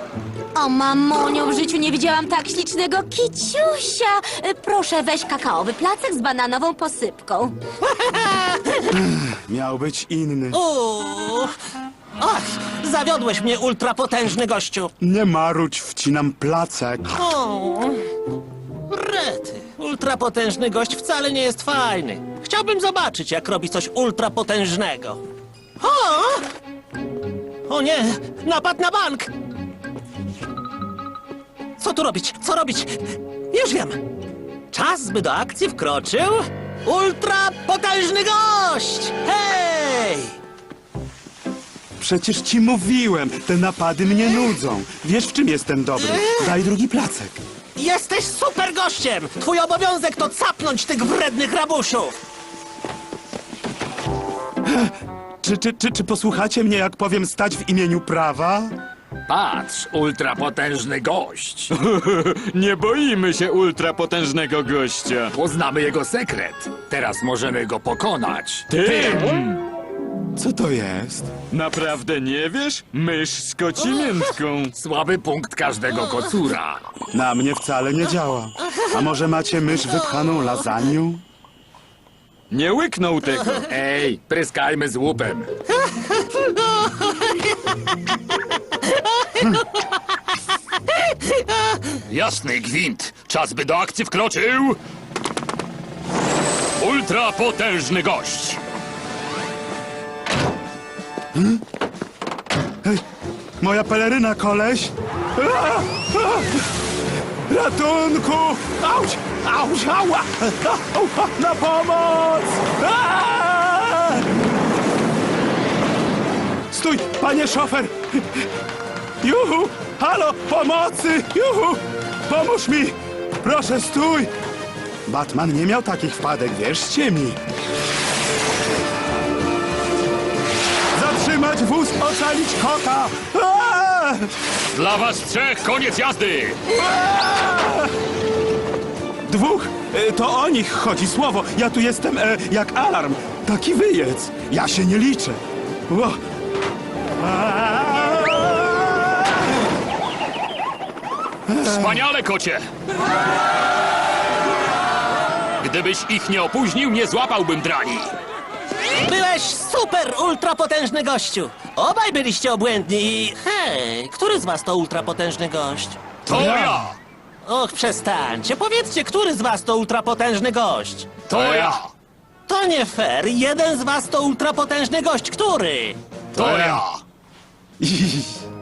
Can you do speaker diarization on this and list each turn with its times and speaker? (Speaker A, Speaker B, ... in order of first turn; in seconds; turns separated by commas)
Speaker A: 0.5-7.5, Speaker B: 7.8-8.8, Speaker C: 8.9-10.6, Speaker B: 10.5-11.5, Speaker B: 12.2-14.9, Speaker C: 15.0-17.1, Speaker B: 17.1-18.0, Speaker B: 18.9-25.2, Speaker B: 25.8-26.4, Speaker B: 27.7-29.3, Speaker B: 31.8-34.0, Speaker B: 34.7-40.4, Speaker C: 42.0-47.4, Speaker B: 46.0-46.3, Speaker B: 47.8-52.1, Speaker C: 54.6-58.7, Speaker D: 59.3-61.7, Speaker E: 61.7-65.3, Speaker D: 65.3-69.2, Speaker E: 68.7-69.6, Speaker C: 70.3-71.3, Speaker E: 71.5-74.7, Speaker D: 74.7-76.8, Speaker C: 77.1-81.2, Speaker E: 82.5-83.6, Speaker D: 83.7-85.5, Speaker B: 85.9-87.4, Speaker B: 88.8-89.5, Speaker F: 92.1-94.8, Speaker F: 96.8-98.6, Speaker C: 101.3-101.6, Speaker C: 103.6-106.5, Speaker C: 107.5-114.3, Speaker C: 116.7-118.0, Speaker C: 119.2-124.3, Speaker C: 125.0-127.4, Speaker C: 130.9-134.3, Speaker F: 134.7-136.6, Speaker C: 136.7-137.9, Speaker C: 139.2-146.2, Speaker C: 147.2-149.4, Speaker C: 151.5-152.1, Speaker F: 151.7-152.6, Speaker F: 155.6-158.1, Speaker B: 159.0-166.0, Speaker F: 166.3-166.9, Speaker C: 166.3-166.8, Speaker B: 167.4-171.2, Speaker F: 171.3-171.8, Speaker D: 171.3-171.8, Speaker B: 172.5-176.0, Speaker F: 176.3-177.0, Speaker C: 176.4-176.8, Speaker C: 177.8-178.3